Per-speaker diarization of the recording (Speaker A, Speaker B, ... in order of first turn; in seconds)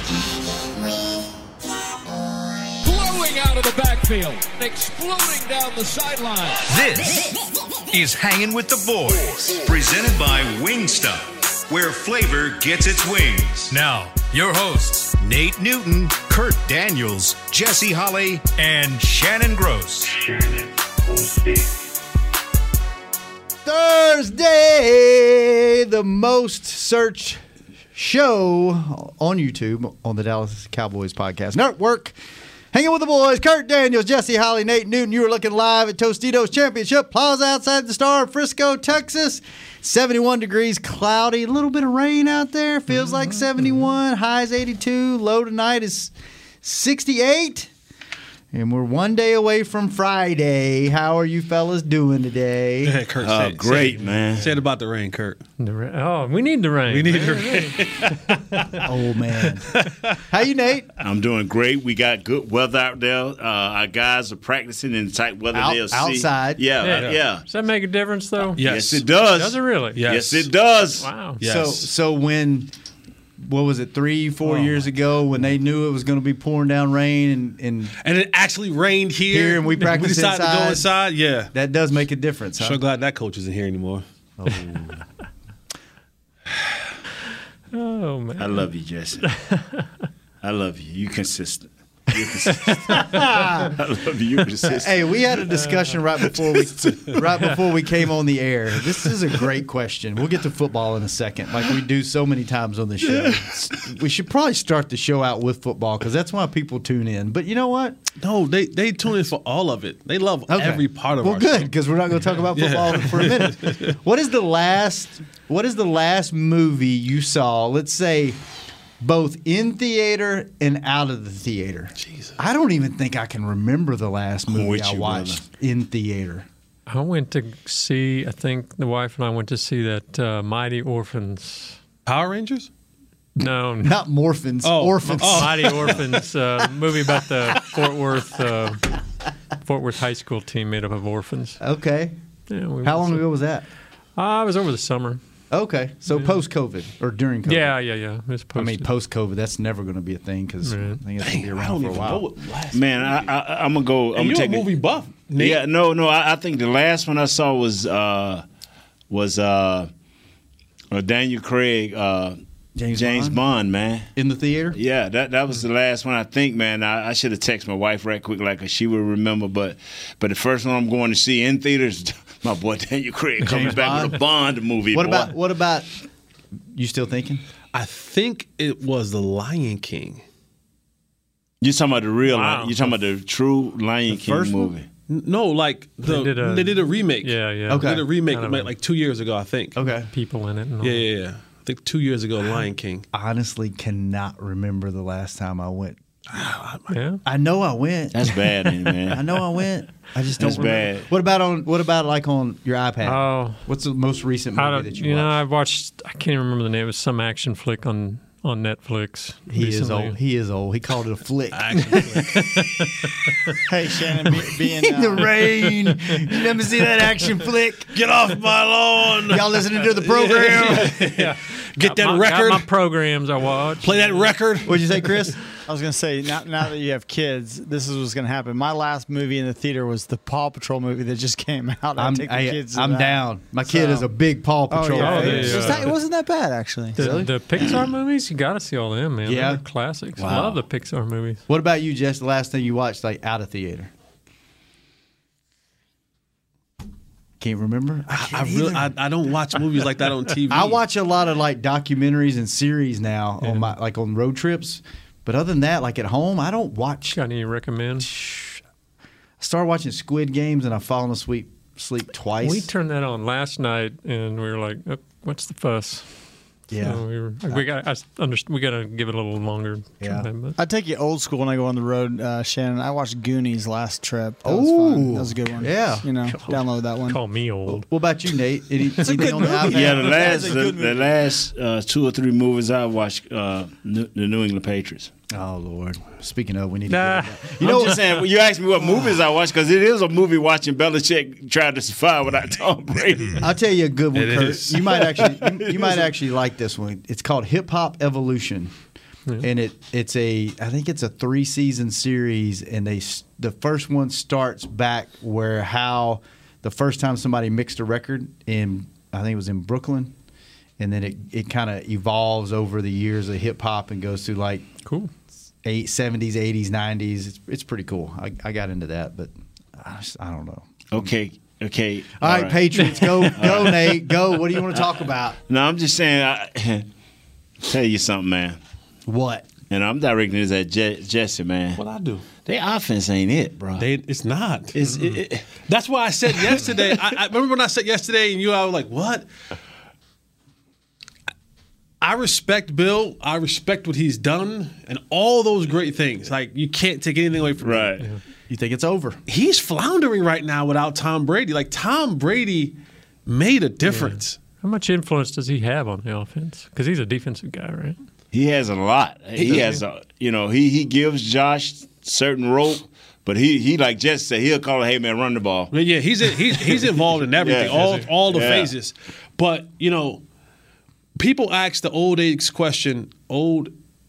Speaker A: 3.1-4.4, 5.2-6.3
Speaker B: 6.6-7.1, 7.9-20.1
Speaker C: 23.6-27.4, 27.9-32.1, 32.7-47.7, 48.5-53.0, 58.8-59.7, 60.3-60.9, 65.5-66.7, 71.4-72.7, 73.4-77.9, 79.3-80.9, 81.5-82.8, 84.4-85.0, 93.0-93.8, 94.7-108.0, 110.5-118.4, 119.0-126.5, 133.8-136.0, 141.6-142.1, 142.8-143.7, 145.5-147.7, 148.5-152.2, 162.8-163.4, 164.2-164.8, 173.4-174.2, 174.9-175.9, 176.7-177.4, 184.1-184.7, 187.7-188.1, 189.7-190.1, 193.1-196.0, 197.2-198.5, 199.1-205.3, 209.5-212.0, 214.4-217.9, 219.3-221.0, 224.7-225.4, 232.0-235.9, 236.9-237.3, 239.2-239.6, 240.2-240.6, 241.5-243.9, 247.4-248.9, 250.5-257.2, 258.0-258.6, 259.4-262.7, 266.7-267.6, 270.0-270.3, 274.4-276.6, 277.6-280.4, 285.3-288.1, 293.3-298.7, 299.4-310.1, 310.8-314.7, 315.6-320.8, 322.2-325.4, 329.1-329.5, 348.5-349.2
Speaker D: 52.8-55.4, 56.9-58.9, 59.7-60.2, 66.9-67.2, 68.5-69.0, 69.9-70.5, 71.4-71.9, 74.4-74.8, 78.0-81.5, 82.6-84.0, 108.2-111.7, 112.5-114.0, 122.0-122.3, 132.1-132.7, 134.6-136.0, 151.2-153.3, 154.1-155.6, 177.7-180.2, 185.1-189.7, 190.8-193.1, 196.3-196.9, 211.5-212.3, 217.9-222.7, 223.8-224.8, 248.1-250.8, 294.1-295.1, 331.8-332.2, 333.8-334.8, 335.6-339.2, 342.0-347.9, 349.3-354.4, 359.4-359.8, 365.7-370.2, 371.2-373.7
Speaker E: 53.2-54.5, 61.0-67.5, 68.6-71.1, 88.4-89.2, 90.4-95.1, 96.8-97.2, 103.0-103.8, 124.5-125.4, 152.7-154.7, 155.3-158.4, 159.1-159.9, 160.9-162.4, 162.9-164.1, 164.7-175.3, 181.6-184.9, 198.1-199.4, 200.4-201.1, 240.2-240.5, 279.7-285.1, 287.6-293.4, 295.2-296.1, 320.9-324.0, 325.5-326.9, 327.6-328.6, 329.7-331.8, 332.4-333.8, 334.7-335.5, 347.6-348.1, 358.3-365.7, 367.4-368.7
Speaker F: 55.6-58.2, 66.8-68.6, 69.3-70.0, 71.0-71.4, 87.7-88.7, 89.2-89.9, 92.6-93.1, 126.9-131.8, 133.4-133.9, 135.2-139.0, 139.6-141.6, 142.5-143.2, 144.2-145.2, 147.4-148.9, 150.6-151.0, 182.2-182.8, 186.0-188.7, 190.1-191.0, 196.9-197.2, 203.0-203.6, 204.6-210.2, 212.3-213.5, 220.8-224.3, 235.0-236.0, 236.9-241.4, 257.1-258.1, 262.4-266.1, 266.8-270.6, 277.1-277.8, 286.9-287.5, 314.8-315.1, 322.8-323.3, 353.8-358.0
Speaker G: 213.7-215.3, 225.7-234.1, 234.7-237.2, 270.6-277.2, 279.0-281.1